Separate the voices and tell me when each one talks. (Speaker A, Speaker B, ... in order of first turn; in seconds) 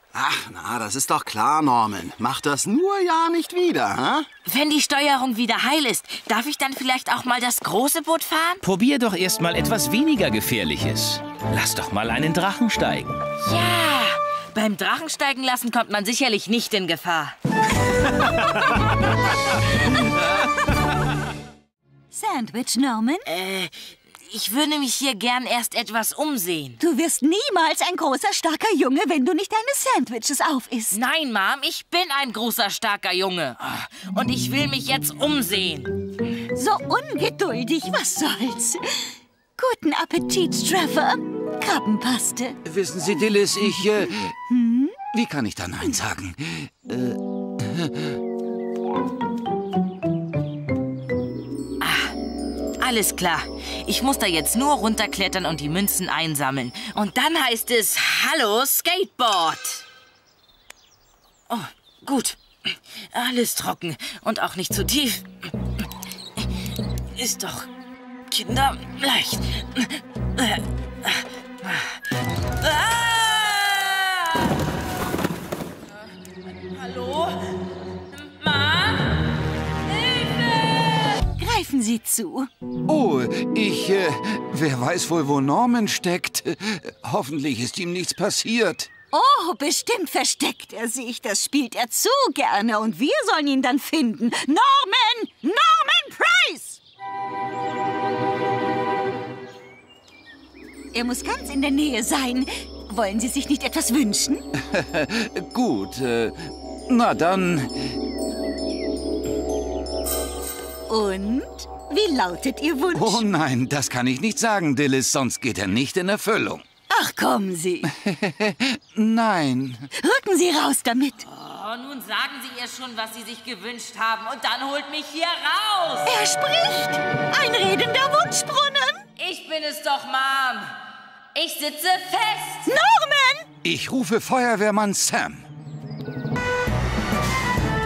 Speaker A: 0.1-4.3
Speaker B: 4.5-8.6, 13.4-17.4, 23.2-26.8, 30.9-35.9, 51.8-52.1, 52.8-59.8, 61.5-65.3, 67.2-67.7, 68.3-71.9, 72.6-74.5, 76.6-77.4, 78.1-79.2, 79.9-81.2, 121.2-126.1, 129.2-130.7, 131.3-132.7
Speaker C: 8.6-13.2
Speaker D: 22.1-23.2, 26.8-31.0, 36.5-38.8, 39.6-42.6, 44.5-45.0, 81.4-82.5, 89.1-96.8, 100.9-104.5, 110.9-113.3, 116.9-117.9, 120.0-121.2, 126.0-129.0, 132.7-133.5
Speaker E: 42.6-44.3, 45.1-47.9, 82.9-88.9, 104.7-107.7, 112.9-116.6, 117.9-119.9, 133.6-135.4